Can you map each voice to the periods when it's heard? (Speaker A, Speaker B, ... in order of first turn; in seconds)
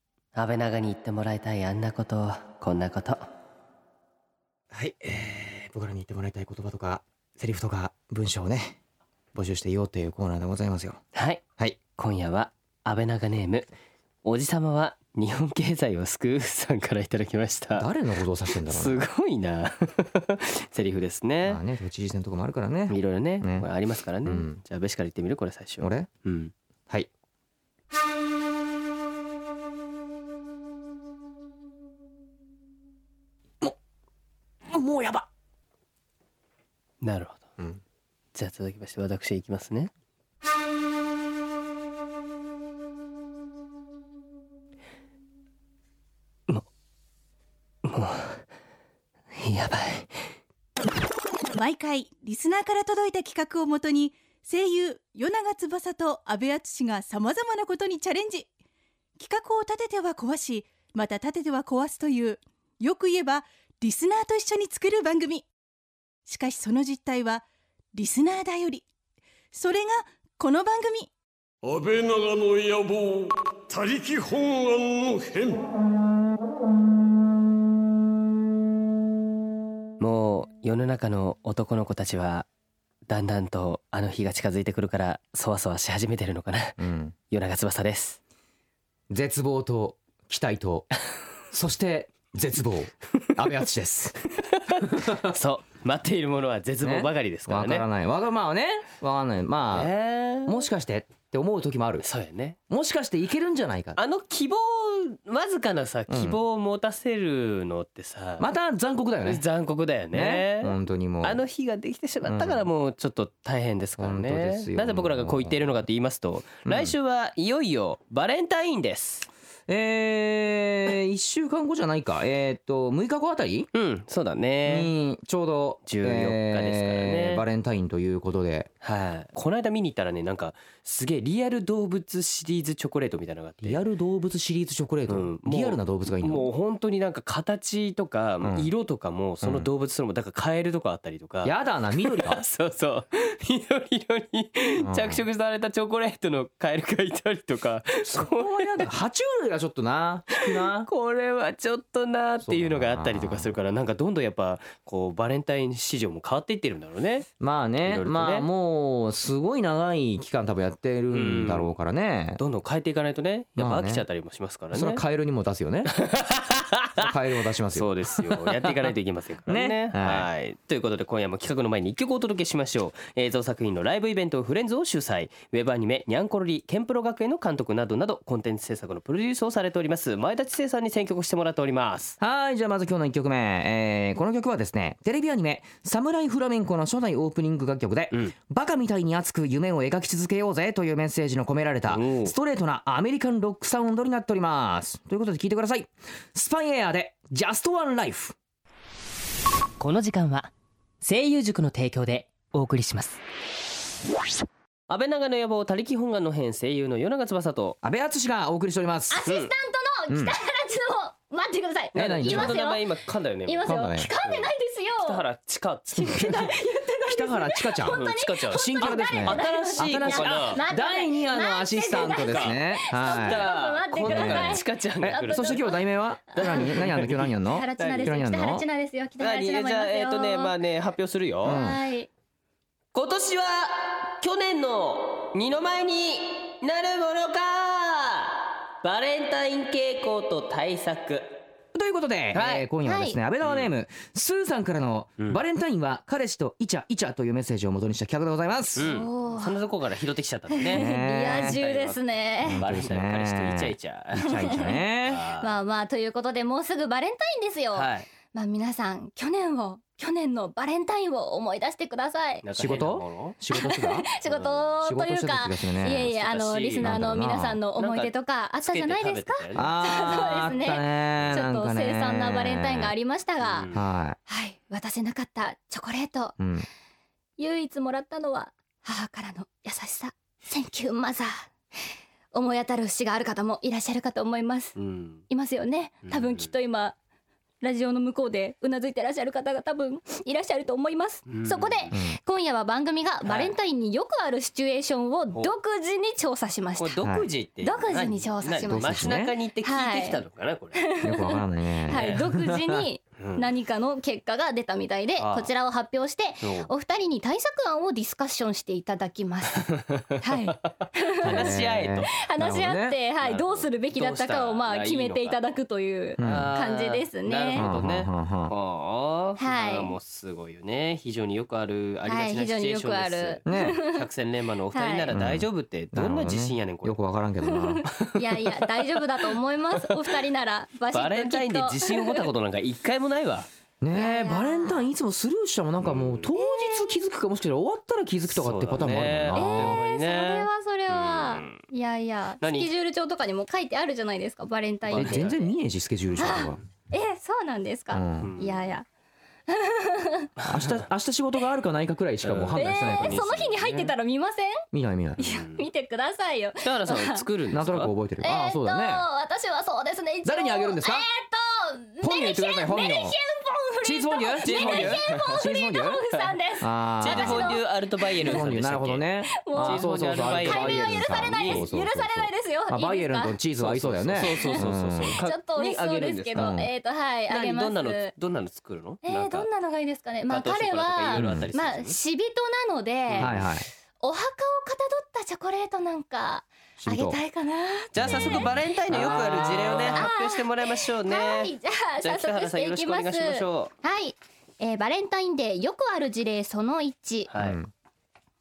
Speaker A: 0.3-3.2, 11.1-13.7, 14.2-17.9, 18.5-21.6, 22.9-26.5, 37.0-37.6, 38.3-39.9, 47.8-48.4, 49.3-50.1, 80.0-82.5, 83.1-88.2, 94.6-97.8, 99.7-100.7, 102.0-102.6, 104.0-108.5, 109.2-119.3, 123.7-124.9, 125.8-127.4, 128.8-133.8, 135.1-148.9, 150.4-157.3, 157.8-158.5, 161.1-161.7, 162.4-165.0, 165.9-167.1, 167.7-182.2, 191.9-192.3, 199.8-200.5, 201.0-203.2, 204.9-207.8, 209.2-209.5, 211.9-216.3, 217.9-220.6, 221.9-225.7, 226.4-228.1, 229.2-231.6, 232.9-241.4, 242.3-242.7, 243.4-243.7, 248.8-250.8, 251.3-255.6, 257.7-258.1, 262.4-263.3, 264.2-264.7, 266.0-267.0, 267.8-268.1, 268.6-269.7, 273.4-273.8, 284.8-285.2, 286.1-286.5, 291.3-291.9, 293.2-293.5, 296.8-300.8, 301.9-302.2, 303.2-303.5, 305.2-305.5, 306.4-306.7, 309.7-312.1, 313.2-315.4, 316.2-326.9, 327.9-329.0, 329.8-330.2, 330.9-333.5, 335.8-336.3, 338.3-341.6, 342.4-342.7, 344.9-345.4, 348.2-348.6, 350.4-350.8, 352.2-353.9, 355.2-355.6, 356.6-357.9, 364.4-365.4, 367.0-369.0, 369.6-371.7, 373.6-376.5, 377.3-379.5, 380.3-381.9, 383.1-383.4, 387.9-393.7, 397.3-397.6
Speaker B: 4.7-8.8, 9.3-11.0, 17.7-19.0, 21.4-23.6, 24.2-24.6, 25.8-26.1, 34.7-35.3, 86.8-87.1, 89.1-90.9, 91.5-94.2, 94.8-95.3, 96.8-99.9, 100.4-102.0, 102.7-104.0, 106.1-106.4, 108.4-109.4, 110.1-111.4, 112.2-112.7, 114.0-115.7, 116.7-116.9, 119.7-123.7, 124.6-128.7, 133.6-136.4, 138.4-138.7, 139.4-139.7, 141.4-142.4, 144.8-145.2, 148.0-150.9, 152.4-153.5, 157.4-162.4, 163.6-164.1, 164.7-165.9, 167.0-168.9, 169.5-170.3, 182.2-198.3, 207.8-209.2, 210.1-210.3, 211.9-212.6, 213.6-214.1, 216.0-223.5, 224.0-228.6, 231.4-231.8, 241.7-248.8, 250.7-251.6, 252.4-255.2, 262.6-264.1, 264.8-266.1, 266.8-267.6, 269.5-272.9, 273.7-274.2, 276.4-276.7, 291.9-292.2, 298.7-299.3, 301.0-302.8, 311.2-313.0, 316.2-316.5, 317.5-318.5, 323.4-323.8, 325.1-327.9, 333.8-339.8, 344.9-346.6, 347.9-348.3, 350.5-353.2, 354.7-355.3, 357.5-359.0, 360.2-361.0, 362.0-363.1, 363.8-366.0, 366.6-367.6, 368.2-375.2, 376.4-376.7, 381.1-381.5, 383.2-383.7, 386.8-387.2, 388.0-390.1, 397.4-397.7
Speaker C: 51.5-58.5, 59.2-65.5, 66.3-67.4, 67.9-68.9, 69.5-71.1
Speaker D: 71.6-75.6
Speaker E: 209.1-212.9, 213.4-215.2, 216.0-226.7, 227.4-230.5, 231.4-232.1, 242.8-243.2, 248.8-249.6, 250.5-252.6, 254.3-254.8, 255.4-262.4, 263.5-273.7, 274.3-276.4, 277.4-281.5, 282.3-284.8, 285.3-286.9, 287.6-297.0, 297.6-300.2, 300.8-311.5, 312.2-317.6, 319.4-319.9, 322.1-324.1, 324.7-325.1, 327.4-332.2, 333.9-334.9, 336.3-336.9, 339.3-345.5, 346.1-348.8, 349.5-350.3, 352.6-354.6, 355.2-357.2, 358.2-367.6, 369.4-373.4, 374.2-374.6, 375.2-378.1, 379.0-397.3